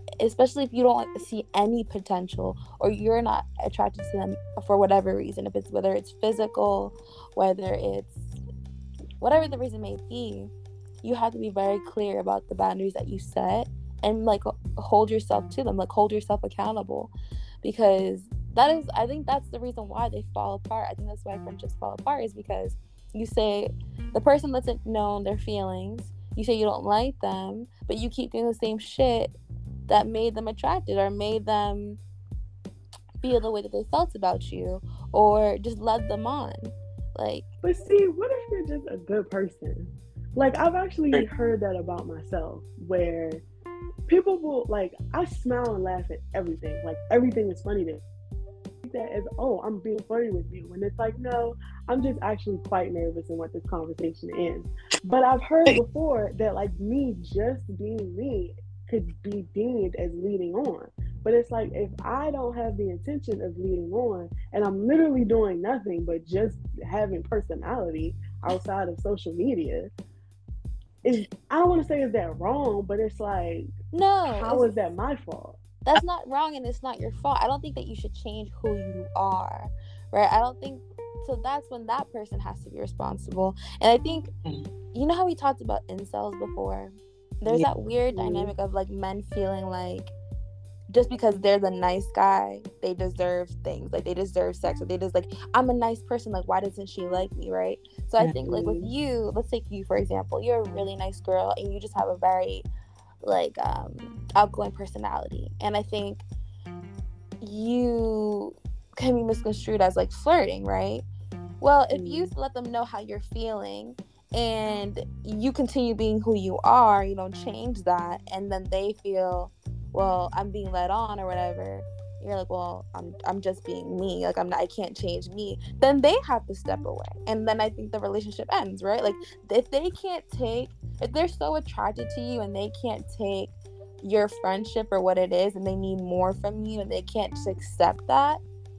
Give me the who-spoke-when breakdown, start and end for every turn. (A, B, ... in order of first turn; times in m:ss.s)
0:00.2-0:08.3 A
0:09.2-0:10.5 A
0:11.0-0:29.4 A
0:29.9-0:32.0 A
0:33.2-0:37.5 A
0:37.6-0:43.4 B
0:44.1-0:48.0 B
0:48.8-1:09.9 B
1:11.0-1:13.7 B
1:13.9-1:14.7 A
1:14.4-1:15.6 B
1:15.9-1:24.3 A
1:24.9-1:30.1 A
1:28.1-1:28.5 B
1:30.9-1:42.7 A
1:38.4-1:38.9 B
1:43.2-1:46.2 A
1:47.4-1:51.0 A
1:51.6-2:18.4 A
1:51.9-1:52.3 B